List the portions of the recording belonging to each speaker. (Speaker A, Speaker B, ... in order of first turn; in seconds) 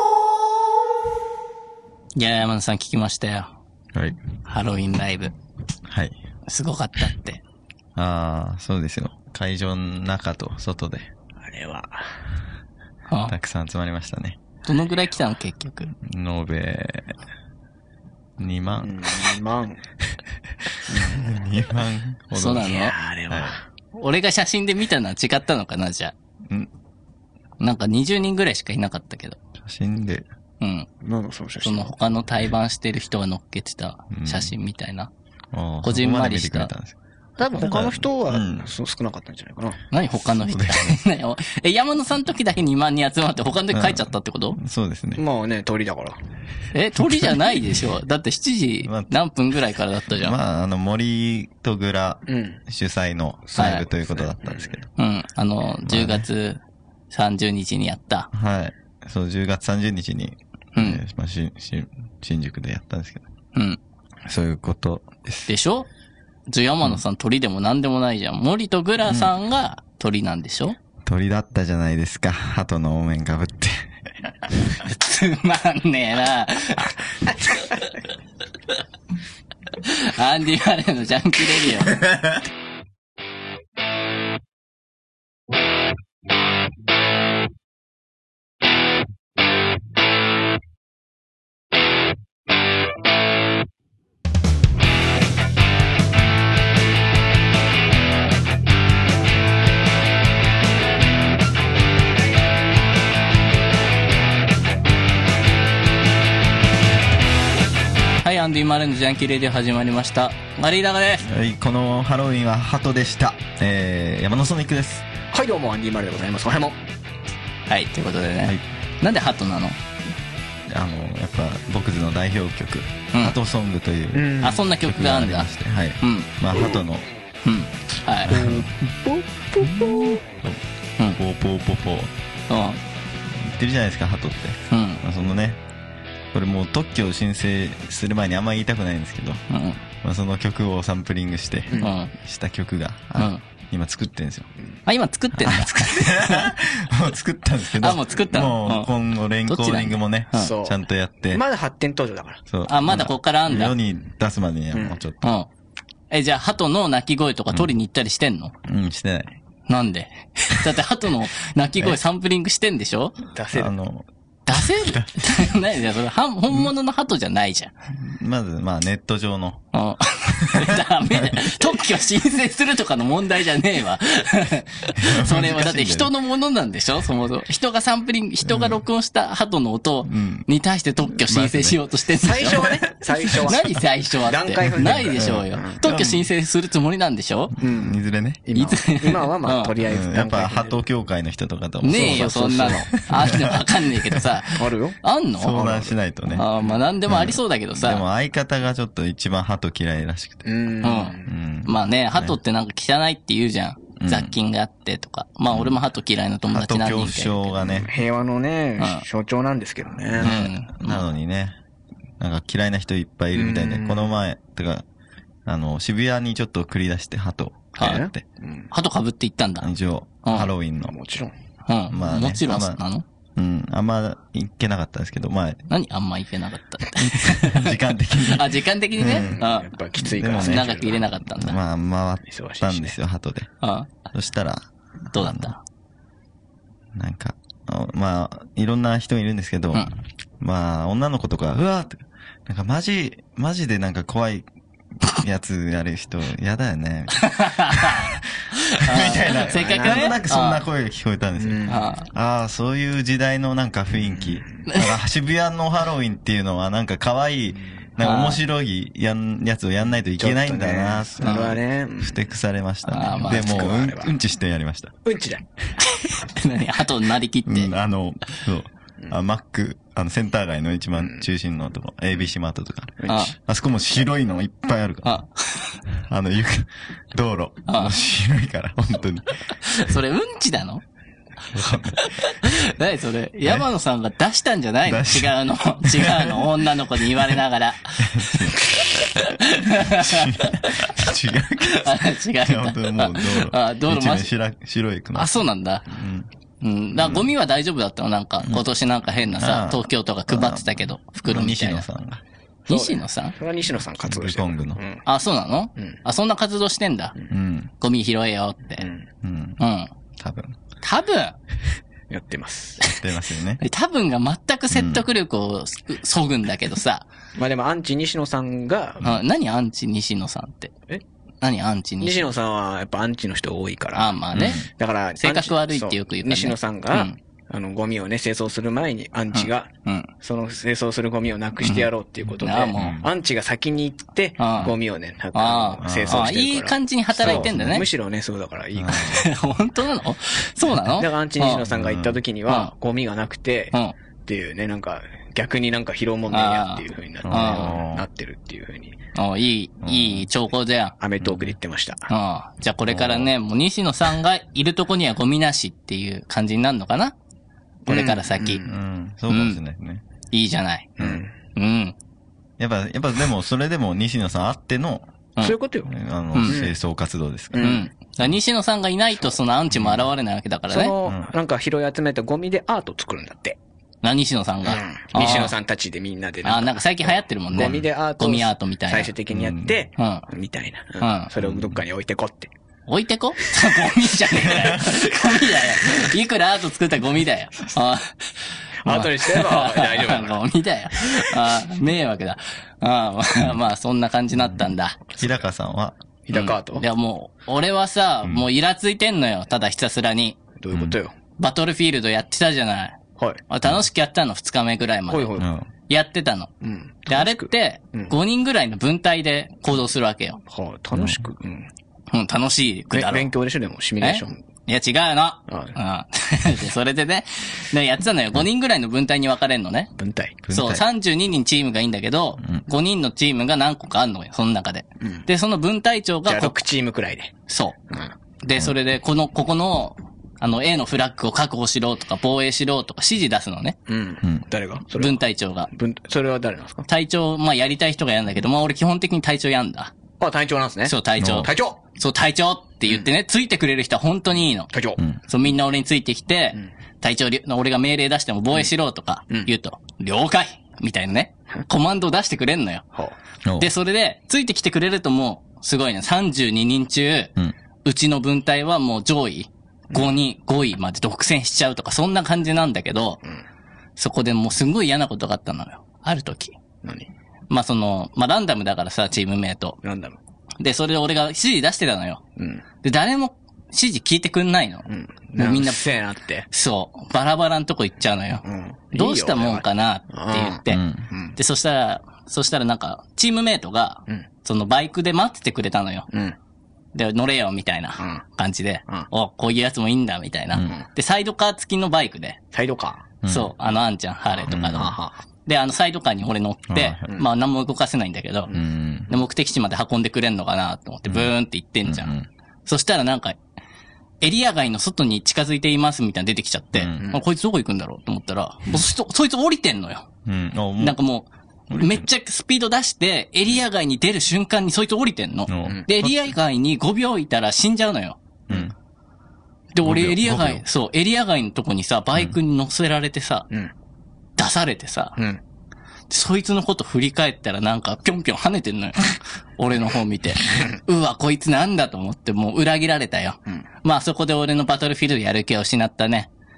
Speaker A: 2.1-3.5, 4.5-5.3, 6.5-7.4, 13.1-13.3, 14.7-15.9, 22.3-22.9, 23.9-26.1, 27.6-29.4, 30.6-30.9, 31.6-35.1, 35.8-36.7, 39.9-44.6, 46.7-50.4, 53.6-53.8, 55.0-58.3, 60.8-61.0, 63.5-63.8, 65.5-65.9, 66.5-70.8, 74.8-77.0, 77.5-77.8, 79.8-82.0, 108.2-111.3, 117.7-119.8, 124.4-125.5, 126.0-126.3, 127.5-128.3, 132.5-132.8, 134.7-135.0, 139.5-139.8, 141.8-142.1, 143.2-143.4, 144.9-146.6, 147.8-148.9, 149.4-150.5, 152.7-153.8, 155.2-155.5, 156.1-158.5, 159.7-163.2, 164.5-167.7, 169.7-182.8, 183.4-187.5, 188.6-189.7, 191.8-195.6, 196.3-198.0, 200.8-207.6, 208.8-209.0, 210.2-211.0, 217.8-218.1, 218.7-219.7, 220.2-220.5, 221.7-223.1, 225.7-229.7, 230.4-231.6, 233.6-233.9, 235.1-235.6, 247.2-248.2, 248.7-250.6, 251.7-252.1, 254.7-255.0, 258.0-258.4, 261.2-261.6, 262.9-263.7, 265.8-267.7, 273.1-273.3, 275.1-275.6, 277.7-277.9, 279.6-280.8, 282.0-291.0, 291.6-294.3, 295.1-295.9, 296.6-301.9, 302.7-303.4, 305.1-307.2, 307.8-308.9, 309.6-309.9, 310.8-311.4, 313.6-317.1, 319.0-320.7, 321.4-322.2, 323.9-324.7, 325.2-327.2, 329.3-330.1, 331.6-333.0, 334.4-334.7, 335.3-337.9, 339.0-341.6, 346.3-347.7, 349.1-350.9, 352.1-357.1, 357.9-358.6, 359.3-359.6, 360.3-360.9, 361.6-362.0, 367.6-370.9, 374.0-375.5, 376.4-379.1, 380.0-380.3, 381.0-381.3, 382.9-388.3, 388.9-395.0, 396.3-400.4, 401.4-403.0, 403.5-406.5, 407.1-410.4, 412.1-413.3, 414.0-419.9, 420.5-426.6, 427.5-427.8, 428.4-433.8, 434.9-435.7, 436.9-439.9, 440.9-444.7, 445.3-452.9, 453.6-457.3, 457.9-463.2, 464.0-466.6, 467.5-469.8, 470.6-472.2, 472.8-475.8, 476.5-480.8, 481.4-486.1, 486.9-492.4, 493.3-498.5, 499.1-502.1, 502.7-503.4, 504.2-510.1, 510.8-518.2, 519.7-523.5, 524.4-525.2, 526.1-536.3
Speaker B: 3.9-4.2, 5.9-6.2, 8.0-11.1, 13.3-14.4, 16.0-17.1, 18.4-19.3, 20.9-22.8, 23.3-23.6, 29.6-30.3, 34.1-34.5, 35.5-37.0, 37.5-38.7, 40.3-41.0, 43.7-45.2, 48.8-49.1, 50.1-54.9, 55.9-56.3, 58.3-63.3, 64.2-65.5, 71.0-73.9, 111.2-115.0, 120.7-127.1, 128.3-128.7, 129.6-130.6, 131.2-132.1, 133.3-135.6, 136.3-139.4, 140.0-144.5, 145.4-151.4, 152.5-155.2, 158.7-159.3, 163.5-165.3, 168.0-169.7, 170.4-171.5, 174.9-176.1, 178.4-178.8, 180.1-180.5, 181.0-181.8, 185.2-186.2, 187.6-188.4, 189.8-194.3, 195.4-196.5, 197.1-200.5, 201.2-202.3, 204.0-204.3, 206.5-207.9, 210.1-211.6, 212.2-214.8, 215.5-218.2, 219.6-220.9, 221.9-222.8, 223.4-225.7, 227.0-229.4, 230.0-233.5, 234.1-235.5, 236.9-244.5, 245.0-248.2, 248.8-264.9, 267.5-275.2, 275.9-279.4, 281.5-282.1, 284.9-287.3, 288.1-296.3, 296.9-297.3, 299.3-302.2, 304.0-304.8, 307.3-307.7, 309.2-309.6, 310.2-310.6, 312.9-313.6, 314.7-315.0, 324.3-324.7, 332.8-333.1, 335.8-336.3, 337.1-337.9, 338.8-339.3, 341.7-342.2, 347.2-348.1, 349.8-350.3, 351.2-351.5, 352.9-353.3, 358.6-360.0, 362.6-365.1, 365.9-367.8, 369.7-370.1, 371.0-371.3, 379.3-379.8, 381.4-381.8, 395.2-396.0, 400.7-401.0, 405.4-405.7, 410.9-411.2, 420.4-420.9, 441.2-441.5, 453.4-453.7, 480.7-481.1, 493.2-493.5, 494.4-494.9, 496.7-497.1, 498.5-499.1, 501.1-501.3, 501.9-502.3, 506.7-507.0, 510.3-511.0, 511.7-512.0, 515.5-516.1, 519.8-520.6
Speaker C: 11.4-12.1, 18.8-19.8, 20.9-21.4, 22.6-23.6, 31.0-32.0, 37.4-39.8, 45.2-46.2, 52.3-52.6, 53.5-54.8, 115.3-116.8, 124.1-124.6, 128.3-130.2, 150.3-150.8, 151.3-152.4, 154.7-155.0, 163.3-163.7, 182.1-185.8, 187.6-190.8, 191.9-192.9, 194.5-195.0, 195.5-196.0, 200.4-201.3, 207.8-210.5, 213.3-214.1, 217.8-218.7, 220.9-221.3, 229.1-231.1, 232.3-232.9, 249.2-250.2, 251.4-251.9, 254.1-254.7, 260.2-262.2, 263.2-264.1, 265.1-265.5, 271.0-271.2, 273.0-273.3, 302.7-305.0, 308.8-309.1, 312.1-312.9, 317.4-319.1, 322.0-329.7, 330.2-339.3, 340.9-349.0, 351.0-352.1, 357.9-358.8, 361.0-361.3, 365.4-365.9, 366.4-366.7, 367.5-367.9, 370.7-373.6, 374.6-382.5, 388.9-390.4, 395.1-395.4, 396.3-396.9, 400.6-401.1, 405.1-405.5, 406.6-408.1, 410.5-411.7, 412.9-414.4, 415.5-415.8, 420.0-420.4, 425.0-425.3, 426.3-427.3, 433.9-436.9, 440.2-441.8, 444.7-445.0, 466.8-467.1, 469.8-470.2, 472.4-472.6, 474.9-476.5, 478.4-481.4, 486.1-486.4, 488.0-488.2, 492.5-493.1, 494.7-495.1